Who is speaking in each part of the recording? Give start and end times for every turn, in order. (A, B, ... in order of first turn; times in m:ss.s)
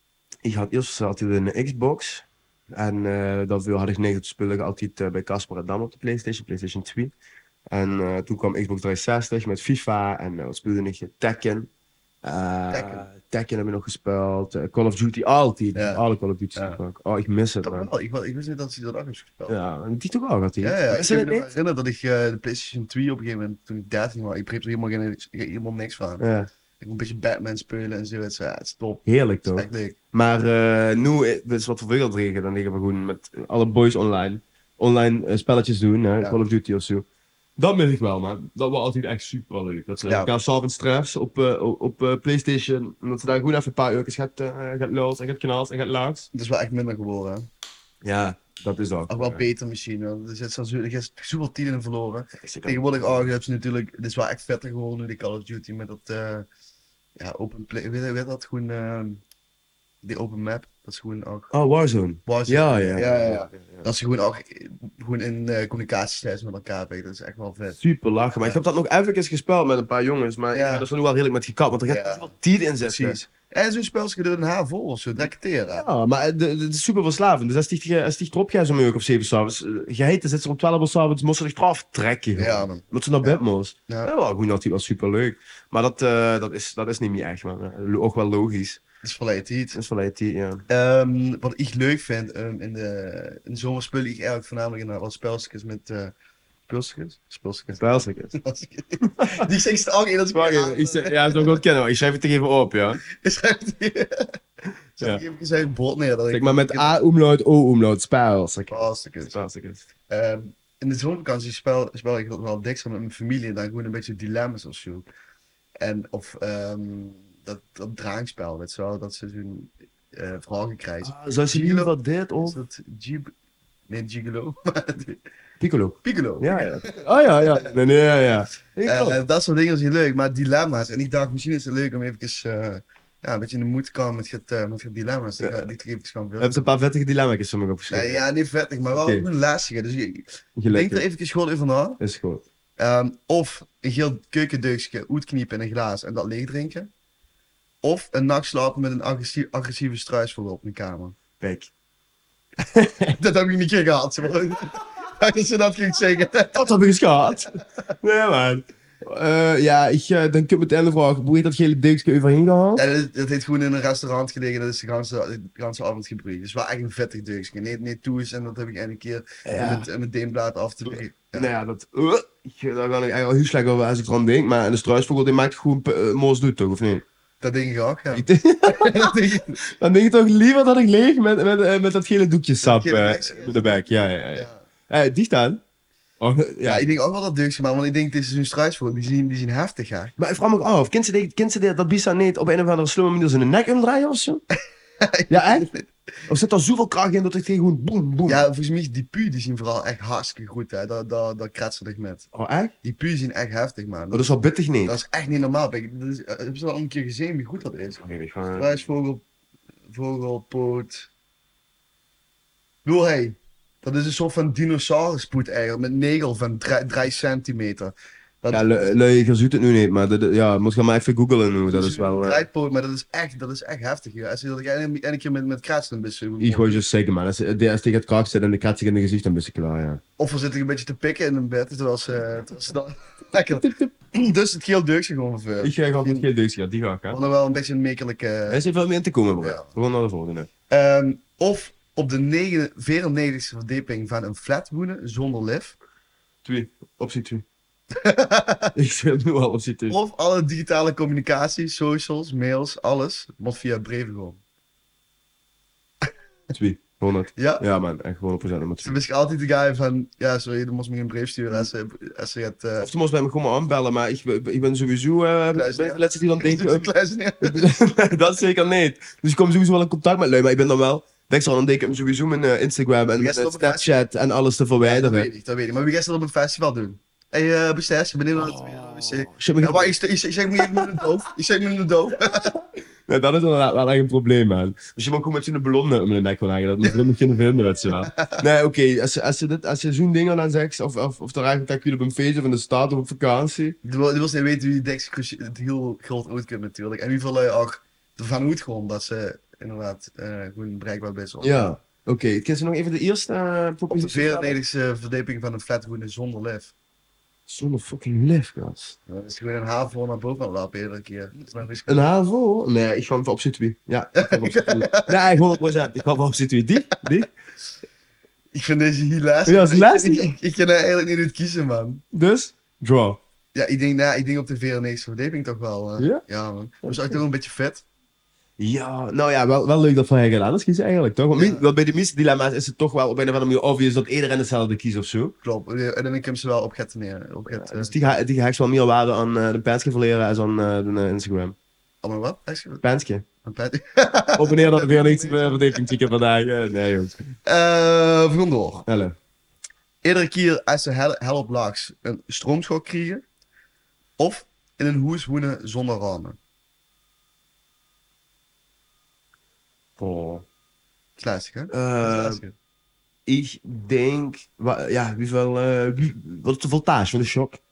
0:00.4-0:07.1 A
0:07.7-0:11.7 A
0:12.2-0:17.9 A
0:12.7-0:13.1 B
0:15.8-0:16.0 B
0:17.6-0:19.6 B
0:19.5-0:21.5 A
0:20.6-0:26.2 B
0:26.2-0:26.5 A
0:26.8-0:30.0 B
0:29.1-0:37.0 A
0:37.6-0:46.3 A
0:46.3-0:47.5 B
0:48.0-0:49.4 A
0:49.1-0:56.5 B
0:52.4-0:53.3 A
0:57.2-0:59.2 B
1:00.0-1:01.5 B
1:01.5-1:03.9 A
1:02.3-1:07.8 B
1:07.8-1:13.2 A
1:10.5-1:10.9 B
1:11.9-1:12.3 B
1:12.8-1:15.8 B
1:15.7-1:28.8 A
1:22.4-1:24.1 B
1:29.0-1:29.8 B
1:29.8-1:30.6 A
1:30.7-1:36.1 B
1:36.7-1:41.6 B
1:37.8-1:38.4 A
1:39.0-1:39.5 A
1:40.3-1:43.0 A
1:43.0-1:44.3 B
1:45.0-1:47.0 B
1:46.3-1:49.8 A
1:48.7-1:49.4 B
1:50.1-1:55.1 B
1:55.8-2:01.9 B
2:01.0-2:02.6 A
2:02.4-2:03.3 B
2:03.9-2:05.2 B
2:05.6-2:09.2 A
2:06.0-2:07.7 B
2:08.9-2:16.7 B
2:15.4-2:15.6 A
2:16.4-2:18.2 A
2:17.9-2:22.0 B
2:19.0-2:19.3 A
2:20.6-2:21.0 A
2:22.0-2:22.4 A
2:22.8-2:26.9 B
2:27.8-2:31.2 B
2:31.4-2:31.7 A
2:32.6-2:33.2 A
2:33.1-2:36.7 B
2:36.5-2:42.8 A
2:42.8-2:51.5 B
2:49.4-2:49.9 A
2:50.9-2:57.0 A
2:57.4-2:59.6 B
2:58.1-3:05.6 A
3:02.6-3:04.6 B
3:06.2-3:06.8 A
3:06.6-3:10.1 B
3:10.2-3:14.4 A
3:15.0-3:15.9 B
3:15.3-3:15.7 A
3:16.3-3:18.4 A
3:18.3-3:22.3 B
3:22.3-3:22.7 A
3:22.8-3:28.0 B
3:24.1-3:25.0 A
3:28.0-3:28.8 A
3:28.6-3:29.2 B
3:29.9-3:31.1 B
3:32.8-3:38.9 B
3:38.5-3:42.5 A
3:41.7-3:46.8 B
3:46.4-3:50.0 A
3:50.2-3:56.3 B
3:53.5-3:53.9 A
3:55.6-3:57.2 A
3:57.1-3:58.6 B
3:58.5-4:00.5 A
3:59.4-3:59.7 B
4:00.7-4:05.8 B
4:06.4-4:07.4 A
4:07.9-4:08.7 B
4:08.8-4:10.0 A
4:09.9-4:14.4 B
4:16.5-4:19.0 A
4:17.4-4:17.6 B
4:18.8-4:22.9 B
4:22.8-4:26.9 A
4:25.5-4:27.7 B
4:27.4-4:35.3 A
4:33.2-4:34.0 B
4:34.8-4:42.5 B
4:38.4-4:40.0 A
4:40.6-4:41.0 A
4:42.3-4:53.8 A
4:48.1-4:48.4 B
4:53.8-5:01.8 B
5:01.4-5:04.6 A
5:03.9-5:06.7 B
5:07.5-5:09.0 A
5:09.1-5:12.1 B
5:11.9-5:17.3 A
5:14.1-5:15.2 B
5:18.5-5:22.0 B
5:19.5-5:20.4 A
5:22.1-5:23.2 A
5:23.5-5:27.8 B
5:26.0-5:26.2 A
5:26.8-5:27.2 A
5:28.6-5:35.4 A
5:31.3-5:31.7 B
5:35.4-5:38.2 B
5:37.5-5:41.6 A
5:42.0-5:42.8 B
5:42.8-5:43.2 A
5:43.4-5:46.0 B
5:44.4-5:47.2 A
5:47.4-5:48.8 B
5:48.9-5:49.1 A
5:50.0-5:53.2 B
5:54.2-5:56.4 B
6:00.0-6:00.5 A
6:01.2-6:02.5 B
6:01.7-6:02.4 A
6:03.3-6:07.6 A